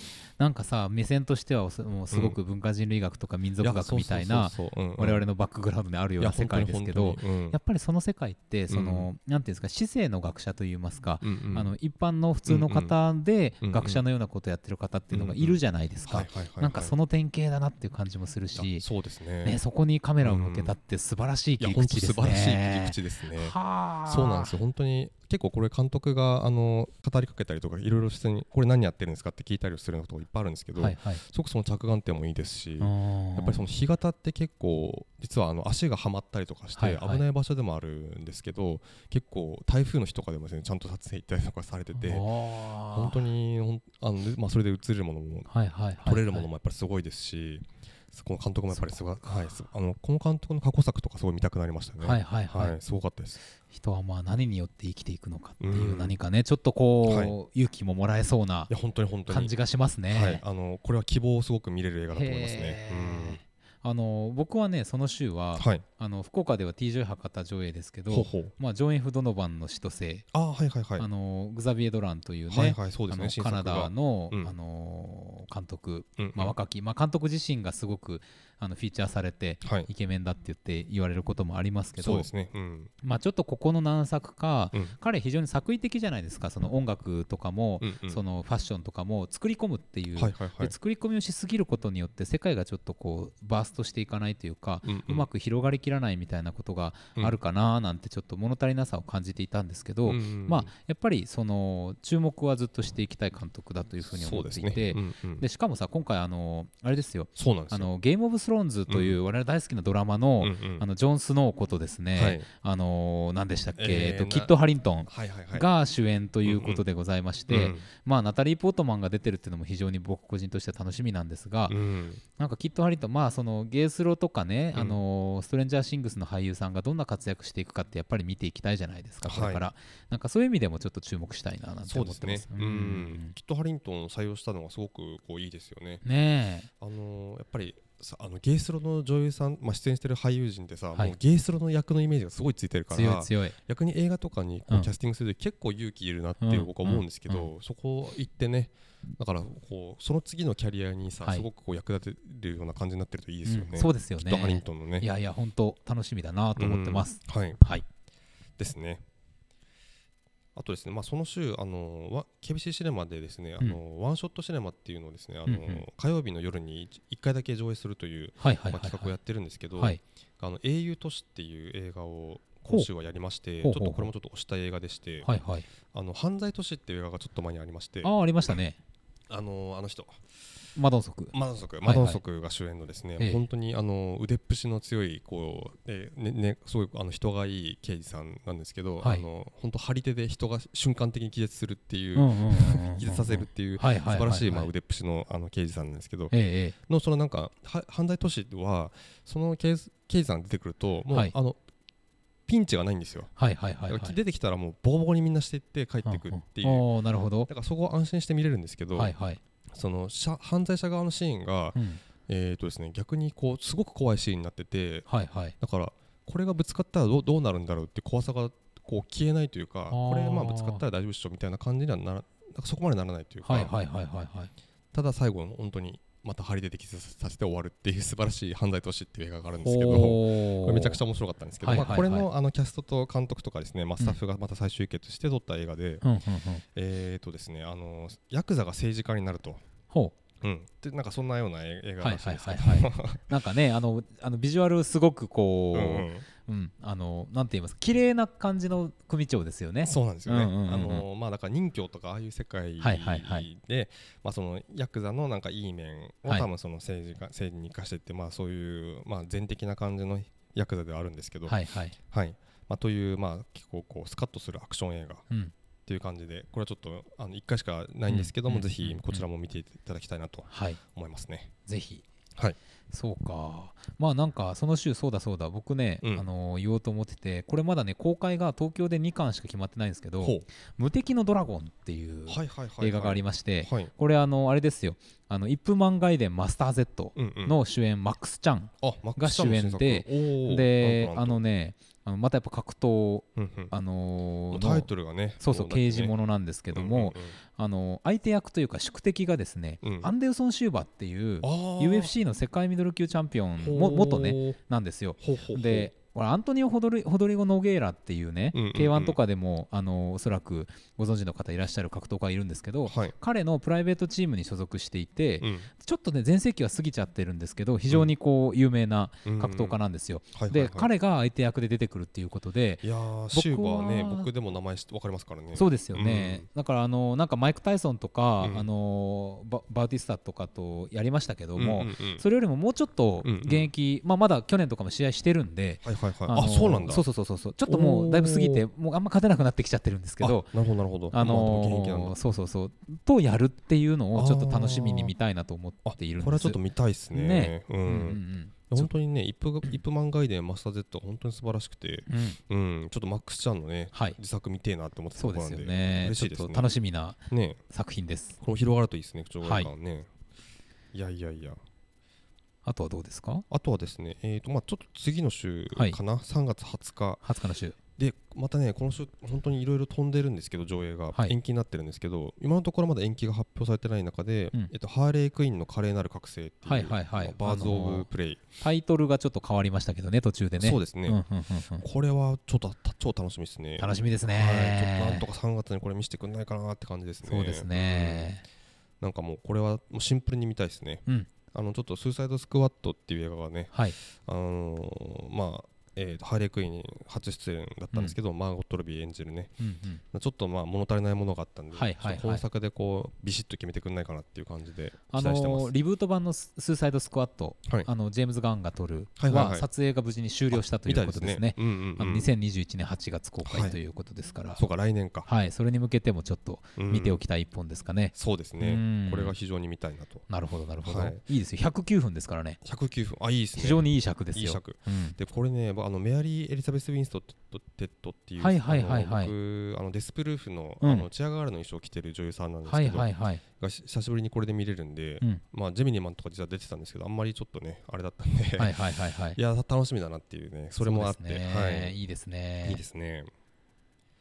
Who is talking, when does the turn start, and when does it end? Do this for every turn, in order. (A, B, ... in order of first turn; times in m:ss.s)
0:00.4-0:18.8 A
0:02.1-0:02.4 B
0:03.6-0:05.2 B
0:06.2-0:07.6 B
0:08.7-0:09.1 B
0:11.2-0:11.7 B
0:12.5-0:12.9 B
0:13.6-0:14.0 B
0:15.1-0:16.9 B
0:18.5-0:19.6 B
0:19.4-0:24.6 A
0:20.2-0:20.7 B
0:21.6-0:45.5 B
0:30.8-0:31.2 A
0:32.8-0:33.6 A
0:36.8-0:37.2 A
0:42.0-0:43.2 A
0:45.5-0:46.5 A
0:46.0-0:53.4 B
0:48.7-0:49.5 A
0:52.0-0:52.8 A
0:53.7-0:58.7 A
0:55.6-0:56.2 B
0:57.0-0:57.3 B
0:58.7-0:59.5 B
0:59.3-1:00.4 A
1:00.1-1:03.4 B
1:02.1-1:10.3 A
1:05.6-1:05.8 B
1:08.1-1:08.5 B
1:10.3-1:11.1 B
1:11.0-1:22.3 A
1:12.5-1:14.5 B
1:16.2-1:16.6 B
1:19.6-1:19.9 B
1:22.0-1:22.9 B
1:23.0-2:01.8 A
1:27.8-1:28.2 B
1:30.2-1:30.7 B
1:34.8-1:35.3 B
1:40.0-1:40.7 B
1:44.0-1:45.4 B
1:47.4-1:47.9 B
1:48.9-1:49.2 B
1:50.4-1:50.8 B
1:52.1-1:52.5 B
1:53.8-1:54.5 B
1:55.0-1:55.6 B
1:56.4-1:56.8 B
1:57.5-1:57.8 B
2:01.7-2:02.2 B
2:02.4-2:13.4 A
2:04.7-2:05.0 B
2:09.2-2:09.7 B
2:11.9-2:16.0 B
2:16.0-2:16.7 A
2:16.8-2:35.0 B
2:22.9-2:23.6 A
2:26.4-2:27.5 A
2:33.4-2:37.8 A
2:36.6-2:37.6 B
2:38.6-2:39.0 B
2:40.5-2:55.3 B
2:45.4-2:45.8 A
2:48.4-2:49.1 A
2:53.6-2:54.1 A
2:55.2-2:55.7 A
2:55.9-2:58.1 B
2:58.0-2:58.8 A
2:59.3-3:00.2 B
3:00.8-3:02.2 A
3:01.3-3:16.3 B
3:12.2-3:14.7 A
3:16.3-3:16.7 A
3:16.8-3:21.6 B
3:22.5-3:23.3 B
3:23.4-3:24.2 A
3:23.9-3:26.9 B
3:26.0-3:27.5 A
3:27.5-3:29.1 B
3:29.0-3:29.4 A
3:29.7-3:35.1 B
3:31.7-3:32.0 A
3:35.1-3:35.5 A
3:35.6-3:43.7 B
3:39.9-3:40.8 A
3:43.4-3:44.5 A
3:44.9-3:56.0 B
3:49.6-3:51.0 A
3:51.6-3:52.3 A
3:56.0-3:56.6 A
3:56.7-3:59.6 B
3:59.9-4:00.1 A
4:00.4-4:03.3 B
4:02.0-4:11.0 A
4:05.7-4:06.2 B
4:09.8-4:25.2 B
4:12.8-4:13.5 A
4:21.5-4:22.0 A
4:25.8-4:31.5 B
4:28.1-4:29.2 A
4:30.5-4:30.8 A
4:31.6-4:32.0 A
4:32.9-4:54.9 A
4:36.0-4:36.3 B
4:42.3-4:43.9 B
4:47.2-4:47.6 B
4:48.8-4:51.4 B
4:53.4-4:53.7 B
4:54.5-4:56.1 B
4:55.4-5:24.3 A
4:56.7-4:57.4 B
4:59.8-5:00.1 B
5:01.4-5:02.1 B
5:03.6-5:04.6 B
5:05.2-5:05.9 B
5:08.5-5:09.2 B
5:12.9-5:13.1 B
5:15.4-5:15.7 B
5:19.2-5:19.8 B
5:20.3-5:20.9 B
5:22.8-5:26.4 B
5:25.5-5:40.5 A
5:28.4-5:28.7 B
5:31.6-5:32.2 B
5:33.2-5:33.7 B
5:35.8-5:37.0 B
5:37.6-5:38.6 B
5:40.2-5:42.1 B
5:41.1-5:46.6 A
5:44.1-5:45.1 B
5:45.8-5:56.7 B
5:47.1-5:48.9 A
5:52.1-5:52.4 A
5:53.9-5:54.2 A
5:55.2-5:58.4 A
5:57.3-5:57.6 B
5:58.4-6:00.1 B
5:59.4-5:59.7 A
6:00.9-6:01.6 B
6:02.6-6:03.4 A
6:03.5-6:07.2 B
6:07.2-6:07.8 A
6:08.0-6:18.4 B
6:16.6-6:18.1 A
6:18.6-6:21.8 A
6:20.6-6:21.2 B
6:21.8-6:28.3 B
6:23.8-6:25.2 A
6:27.2-6:28.4 A
6:29.0-6:39.5 B
6:39.6-6:40.0 A
6:40.1-6:45.7 B
6:41.7-6:42.4 A
6:45.1-6:54.6 A
6:49.2-6:49.7 B
6:50.5-6:52.3 B
6:53.4-6:53.8 B
6:54.6-6:55.3 B
6:55.2-6:59.3 A
6:56.8-6:57.2 B
6:58.1-7:00.3 B
7:00.3-7:02.6 A
7:00.8-7:01.2 B
7:02.6-7:18.8 B
7:03.6-7:05.2 A
7:08.4-7:09.3 A
7:10.8-7:11.1 A
7:12.7-7:13.4 A
7:18.6-7:19.4 A
7:19.4-7:22.0 B
7:20.8-7:22.8 A
7:22.6-7:23.3 B